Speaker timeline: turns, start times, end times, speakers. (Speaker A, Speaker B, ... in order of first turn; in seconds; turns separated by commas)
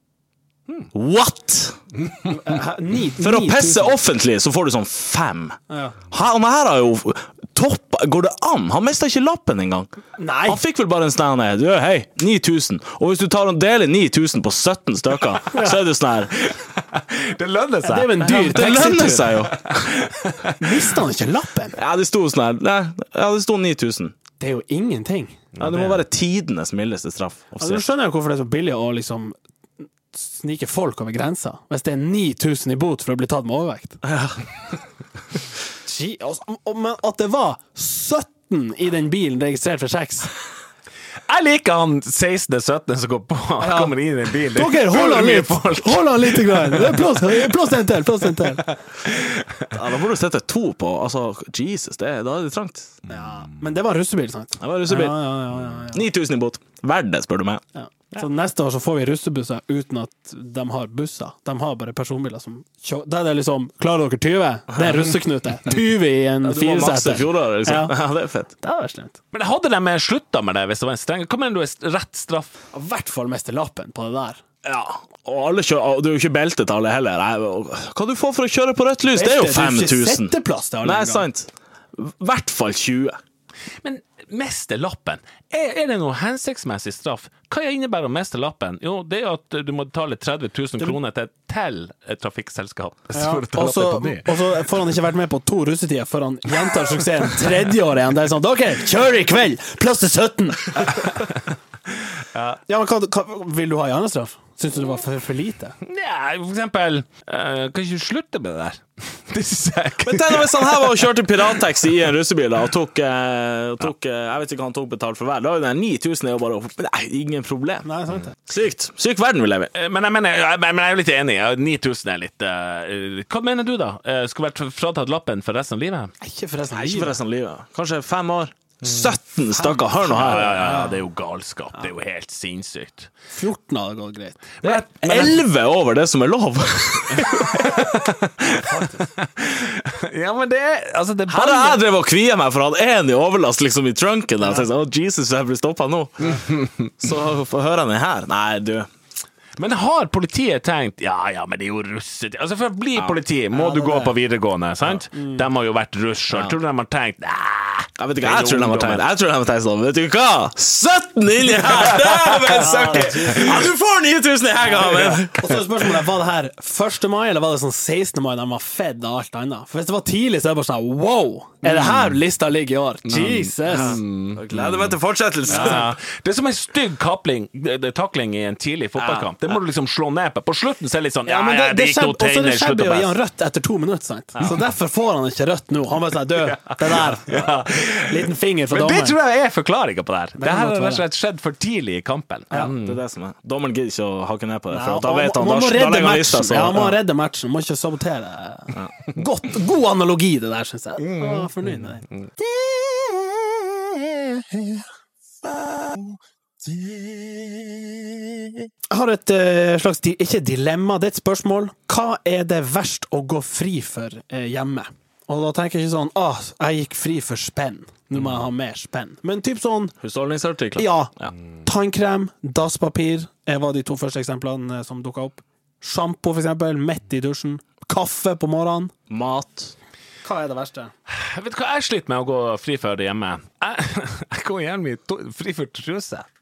Speaker A: 0.9-1.8, Speaker B: 2.3-3.9, Speaker A: 3.2-5.6, Speaker B: 5.7-5.9, Speaker A: 6.1-9.9, Speaker B: 10.2-10.6, Speaker A: 10.4-16.3, Speaker C: 16.3-18.7, Speaker B: 17.8-19.4, Speaker A: 18.2-19.7, Speaker C: 19.4-20.9, Speaker B: 20.6-21.8, Speaker A: 21.7-24.1, Speaker B: 24.4-25.4, Speaker C: 25.6-26.0, Speaker A: 25.6-27.8, Speaker B: 27.6-29.4, Speaker B: 30.1-34.0, Speaker A: 34.0-34.4, Speaker B: 35.8-40.3, Speaker C: 41.3-47.5, Speaker B: 43.6-43.9, Speaker B: 44.5-48.6, Speaker C: 48.4-49.7, Speaker A: 49.7-53.0, Speaker B: 53.1-56.0, Speaker A: 54.6-57.6, Speaker B: 57.7-67.9, Speaker A: 66.4-68.5, Speaker B: 68.6-69.2, Speaker C: 69.3-72.5, Speaker B: 72.7-74.4, Speaker A: 74.6-83.2, Speaker B: 79.1-81.2, Speaker C: 83.8-94.3, Speaker B: 93.1-101.2, Speaker C: 102.3-102.6, Speaker B: 102.7-105.8, Speaker C: 105.8-111.1, Speaker A: 110.0-117.9, Speaker B: 117.8-118.3, Speaker A: 118.4-119.7, Speaker C: 119.7-126.1, Speaker B: 126.2-127.2, Speaker A: 126.7-130.6, Speaker B: 129.5-131.0, Speaker C: 130.1-133.1, Speaker B: 133.3-134.6, Speaker C: 134.6-135.3, Speaker A: 134.6-137.6, Speaker C: 137.1-141.8, Speaker B: 138.5-139.1, Speaker A: 141.3-148.9, Speaker C: 149.6-159.0, Speaker B: 153.5-154.1, Speaker B: 155.1-155.4, Speaker A: 158.0-165.6, Speaker C: 161.7-163.5, Speaker B: 162.6-163.7, Speaker B: 164.6-174.0, Speaker C: 171.7-172.1, Speaker C: 173.1-174.8, Speaker A: 173.7-175.9, Speaker B: 175.5-175.8, Speaker C: 175.5-183.1, Speaker A: 179.0-179.3, Speaker B: 181.2-189.2, Speaker C: 186.4-193.0, Speaker B: 190.4-191.0, Speaker A: 192.7-197.0, Speaker B: 194.7-203.3, Speaker C: 201.0-202.3, Speaker C: 206.7-208.1, Speaker B: 208.9-219.9, Speaker A: 220.0-221.3, Speaker B: 220.8-221.1, Speaker B: 221.6-228.9, Speaker A: 229.1-229.7, Speaker B: 230.2-230.9, Speaker C: 231.1-236.2